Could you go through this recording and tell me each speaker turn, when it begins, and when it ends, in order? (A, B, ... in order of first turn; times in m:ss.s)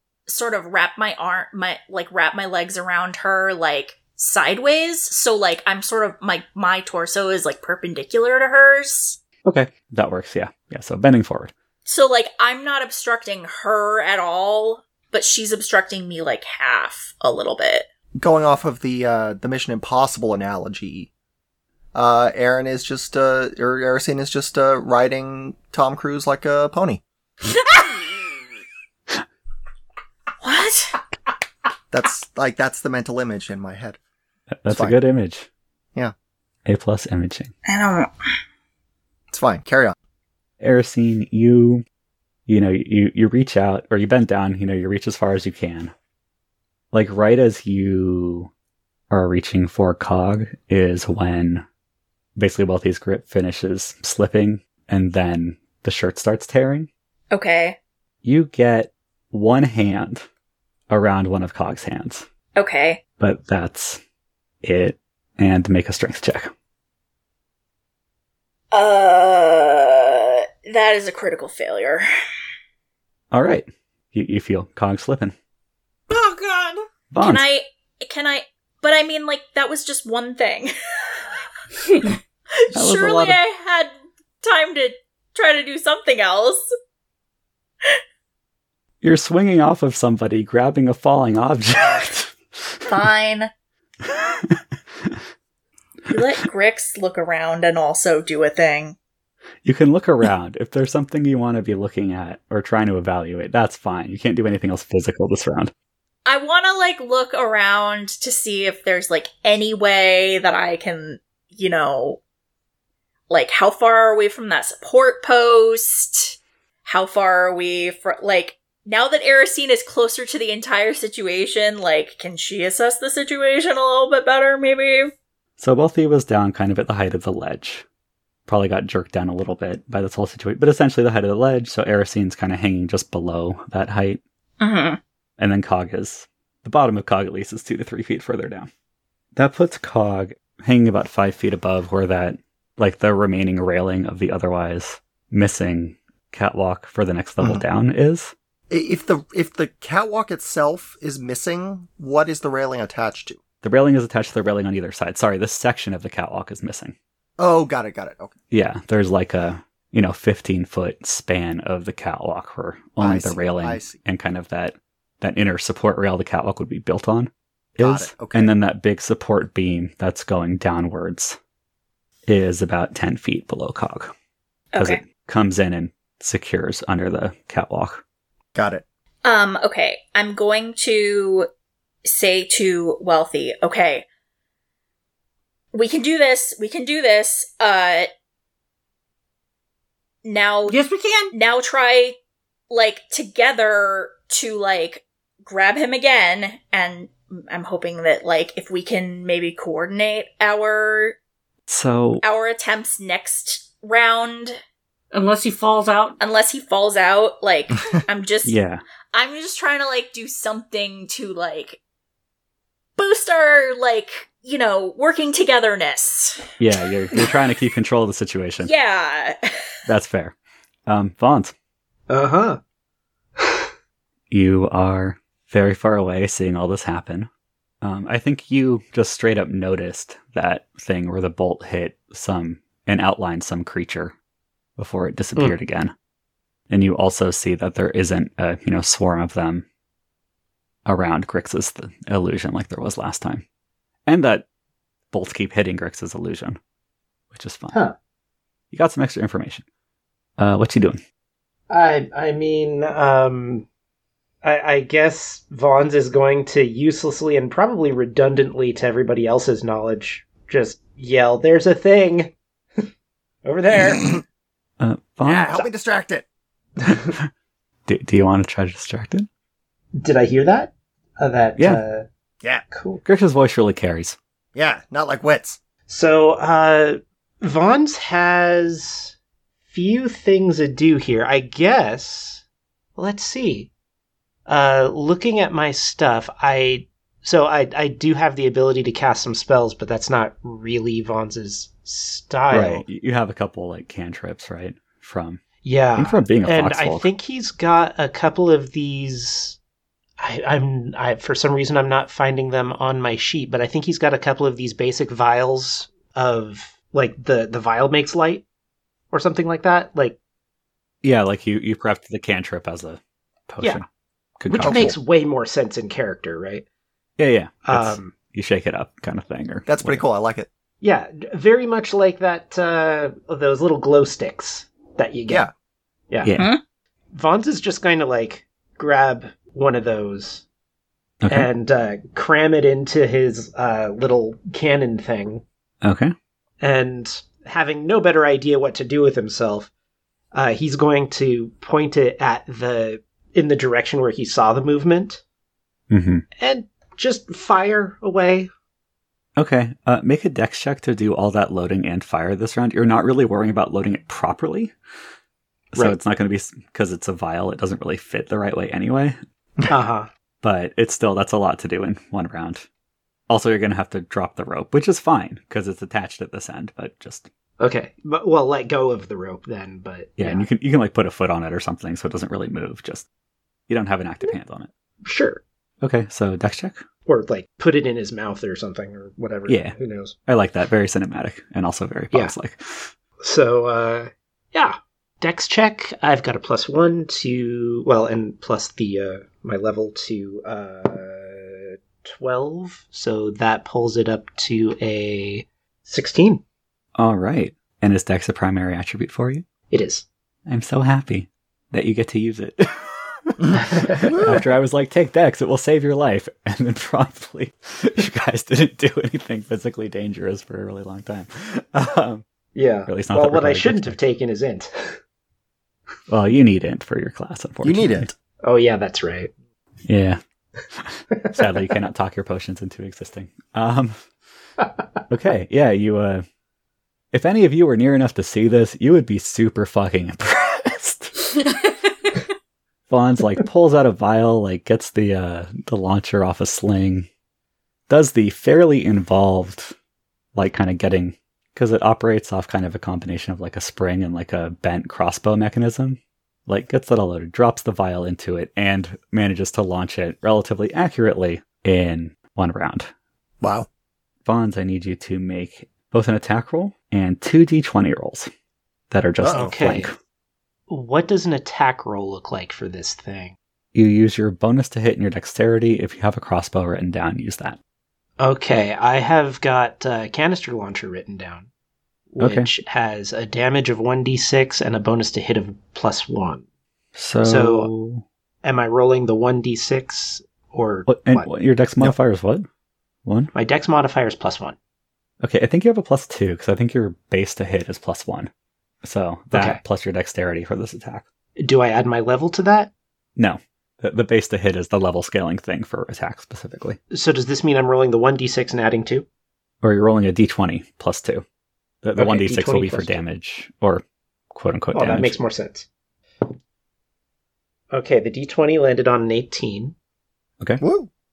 0:00.3-0:09.2 A
0:09.4-0:11.5 B
0:11.8-0:17.9 A
0:18.2-0:21.1 C
0:21.9-0:27.0 C
0:30.4-0:31.0 A
0:31.9-0:34.0 C
0:34.6-0:35.5 B
0:34.7-0:35.0 C
0:36.6-0:37.5 B
0:37.6-0:38.1 A
0:39.3-0:40.0 C
0:40.6-0:41.8 B
0:42.5-0:45.9 B
0:46.9-0:48.5 B
0:49.1-0:51.6 B
0:52.4-0:56.9 B
0:57.3-0:57.8 A
0:58.2-1:00.2 B
1:00.9-1:02.3 B
1:02.6-1:03.0 A
1:03.2-1:04.0 B
1:04.6-1:06.5 B
1:08.7-1:12.0 A
1:13.3-1:15.3 B
1:16.1-1:16.8 D
1:17.1-1:17.4 B
1:17.2-1:21.2 A
1:22.5-1:26.6 A
1:22.7-1:23.4 B
1:29.0-1:32.8 B
1:32.8-1:33.5 A
1:34.0-1:35.2 B
1:36.1-1:39.0 A
1:39.6-1:45.7 B
1:46.2-1:52.2 A
1:53.3-2:05.1 A
2:05.6-2:07.8 B
2:08.5-2:14.2 B
2:14.6-2:15.0 A
2:15.4-2:18.7 B
2:19.4-2:28.3 B
2:28.7-2:33.4 C
2:33.6-2:36.9 B
2:37.4-2:38.3 C
2:38.5-2:51.4 B
2:43.0-2:44.0 C
2:47.8-2:48.5 C
2:52.3-2:54.1 B
2:54.7-2:55.0 A
2:54.8-2:58.0 B
2:58.5-2:58.8 C
2:59.2-3:01.5 A
3:02.0-3:04.0 A
3:05.7-3:08.1 A
3:10.2-3:10.8 A
3:10.7-3:11.3 D
3:11.3-3:12.2 A
3:12.7-3:21.2 A
3:21.7-3:22.2 B
3:22.2-3:24.6 A
3:25.1-3:26.2 D
3:26.2-3:28.5 A
3:28.4-3:28.8 B
3:29.1-3:31.8 A
3:33.0-3:36.5 A
3:36.6-3:38.7 B
3:38.6-3:39.7 A
3:39.8-3:40.3 B
3:40.9-3:41.5 B
3:42.1-3:42.6 E
3:43.4-3:43.6 E
3:44.3-3:47.3 B
3:47.8-3:54.1 B
3:54.8-3:55.9 B
3:56.7-3:59.6 B
4:00.8-4:03.4 B
4:04.1-4:04.4 B
4:05.1-4:06.6 B
4:07.3-4:07.8 B
4:08.7-4:09.6 B
4:10.4-4:11.0 B
4:11.7-4:13.6 E
4:14.4-4:22.9 E
4:23.4-4:24.2 E
4:24.8-4:25.6 B
4:25.2-4:26.2 C
4:27.9-4:29.3 B
4:29.9-4:32.0 E
4:31.6-4:31.8 B
4:32.7-4:33.0 E
4:33.0-4:34.2 B
4:34.5-4:35.6 C
4:35.9-4:39.1 E
4:39.7-4:42.4 E
4:43.0-4:43.7 E
4:44.4-4:52.8 E
4:52.5-4:55.4 B
4:55.6-4:59.6 E
4:56.0-4:57.1 B
5:00.2-5:08.4 E
5:09.1-5:10.2 E
5:11.0-5:13.8 B
5:14.4-5:14.9 B
5:14.5-5:16.6 E
5:14.6-5:14.9 C
5:17.2-5:20.0 B
5:17.6-5:18.1 E
5:19.7-5:20.5 C
5:20.8-5:25.5 E
5:26.2-5:26.5 B
5:26.3-5:26.6 A
5:27.1-5:30.4 E
5:31.2-5:31.5 B
5:31.3-5:35.4 E
5:35.8-5:36.1 B
5:36.6-5:39.7 E
5:40.3-5:45.2 E
5:45.9-5:46.2 B
5:46.4-5:48.5 E
5:49.4-5:54.7 B
5:55.7-5:59.2 B
5:59.7-6:00.1 E
6:00.4-6:02.7 B
6:03.3-6:07.3 B
6:07.6-6:10.4 E
6:10.2-6:13.0 B
6:13.7-6:14.7 B
6:15.0-6:15.4 E
6:15.8-6:16.8 B
6:17.1-6:20.1 E
6:19.5-6:22.9 B
6:23.2-6:36.4 E
6:37.0-6:39.4 B
6:39.7-6:40.0 E
6:40.5-6:52.2 B
6:43.5-6:44.4 E
6:52.5-6:55.0 E
6:52.9-6:54.0 B
6:56.1-6:58.1 B
6:57.6-6:58.1 C
6:58.4-6:59.3 E
6:59.9-7:00.2 B
7:00.7-7:04.0 B
7:01.1-7:01.6 E
7:05.1-7:06.2 B
7:07.1-7:11.2 B
7:11.3-7:12.2 D
7:12.9-7:17.1 B
7:17.9-7:19.7 B
7:20.3-7:32.9 B
7:33.4-7:33.7 C
7:34.2-7:38.3 B
7:38.9-7:40.0 B
7:39.2-7:39.8 C
7:39.3-7:39.9 E
7:40.7-7:43.4 E
7:43.7-7:47.6 B
7:48.2-7:51.5 E
7:52.1-7:56.4 E
7:52.2-7:52.5 B
7:56.9-7:58.0 B
7:57.2-7:57.7 E
7:58.4-8:01.3 E
8:00.9-8:02.4 B
8:03.0-8:03.3 B
8:03.3-8:04.6 E
8:05.2-8:08.3 B
8:08.8-8:11.0 B
8:09.3-8:09.6 E
8:11.4-8:12.7 E
8:13.2-8:16.8 B
8:16.9-8:19.0 E
8:19.6-8:21.2 B
8:21.8-8:25.1 B
8:22.0-8:23.0 E
8:24.7-8:25.6 E
8:27.7-8:29.7 E
8:30.6-8:30.9 C